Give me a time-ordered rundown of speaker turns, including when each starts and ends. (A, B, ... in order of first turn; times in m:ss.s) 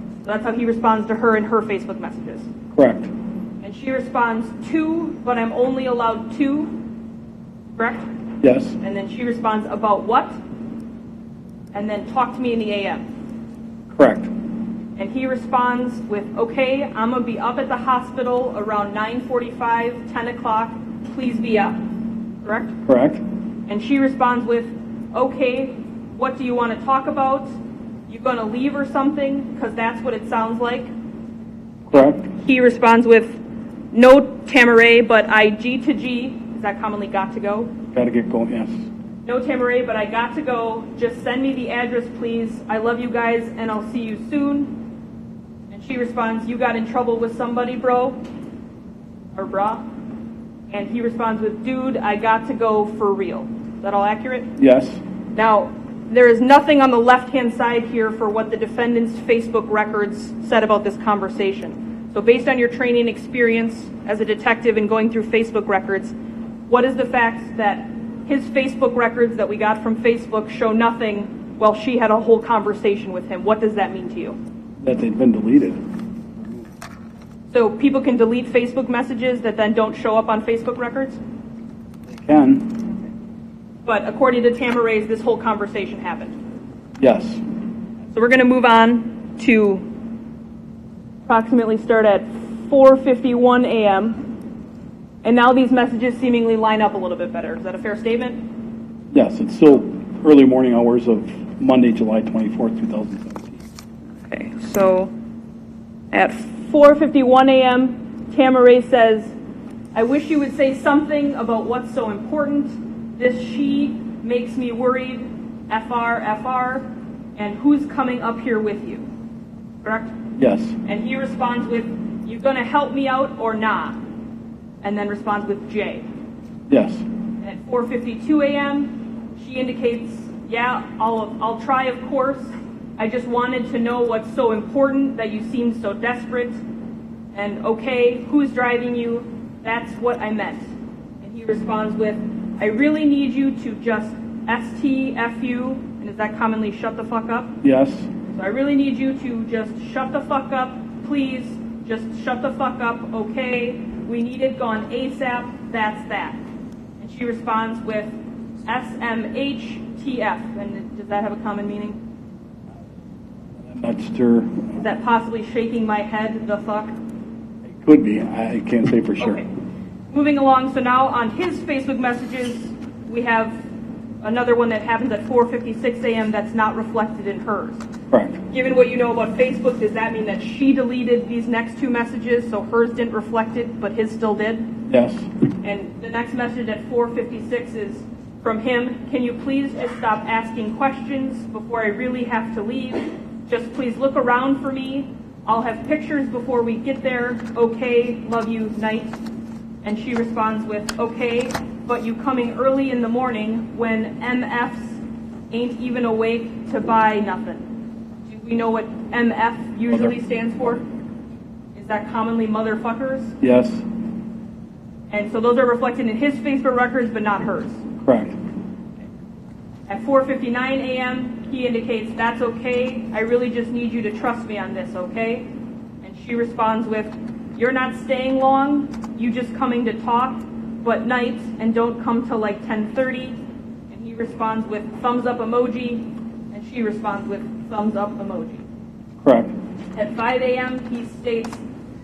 0:00.2-0:02.5 A
0:02.7-0:03.1 B
0:03.6-0:06.8 A
0:07.8-0:08.1 A
0:08.4-0:08.8 B
0:08.8-0:10.4 A
0:11.7-0:13.1 A
0:13.9-0:14.3 B
0:15.0-0:21.8 A
0:22.4-0:22.8 A
0:22.9-0:23.2 B
0:23.7-0:27.5 A
0:28.1-0:30.9 A
0:31.9-0:32.3 B
0:32.4-0:33.4 A
0:33.9-0:37.7 A
0:37.9-0:38.9 B
0:39.2-0:44.8 A
0:45.7-0:48.2 A
0:49.3-0:49.8 A
0:50.7-0:54.5 A
0:54.6-0:55.0 B
0:55.4-1:06.2 A
1:06.7-1:14.4 A
1:14.8-1:15.8 B
1:16.4-1:16.7 B
1:17.5-1:21.2 A
1:22.1-1:22.9 B
1:23.8-1:26.4 A
1:27.0-1:27.4 B
1:28.1-1:29.9 A
1:31.3-1:34.3 A
1:35.2-1:38.4 A
1:39.1-1:43.7 B
1:44.3-1:45.1 A
1:46.1-1:49.3 A
1:49.9-1:59.1 A
1:59.8-2:00.2 A
2:00.4-2:00.8 B
2:00.8-2:04.0 A
2:04.8-2:06.1 A
2:06.7-2:07.1 B
2:07.4-2:16.6 A
2:17.3-2:20.7 A
2:21.2-2:27.6 A
2:27.6-2:28.1 B
2:28.3-2:36.4 A
2:37.0-2:42.0 A
2:43.6-2:44.8 B
2:44.8-2:46.9 A
2:47.6-2:49.4 B
2:49.2-2:49.5 A
2:50.1-2:53.6 A
2:54.2-2:57.9 A
2:58.1-2:58.4 B
2:58.5-3:04.8 A
3:04.9-3:05.3 B
3:05.6-3:19.2 A
3:19.8-3:25.0 A
3:25.5-3:27.7 A
3:28.3-3:30.8 A
3:31.7-3:33.4 A
3:33.4-3:33.8 B
3:35.1-3:37.8 A
3:38.0-3:38.4 B
3:39.9-3:45.5 A
3:46.0-3:53.4 A
3:53.9-3:58.6 A
3:59.2-3:59.5 B
4:00.0-4:01.6 A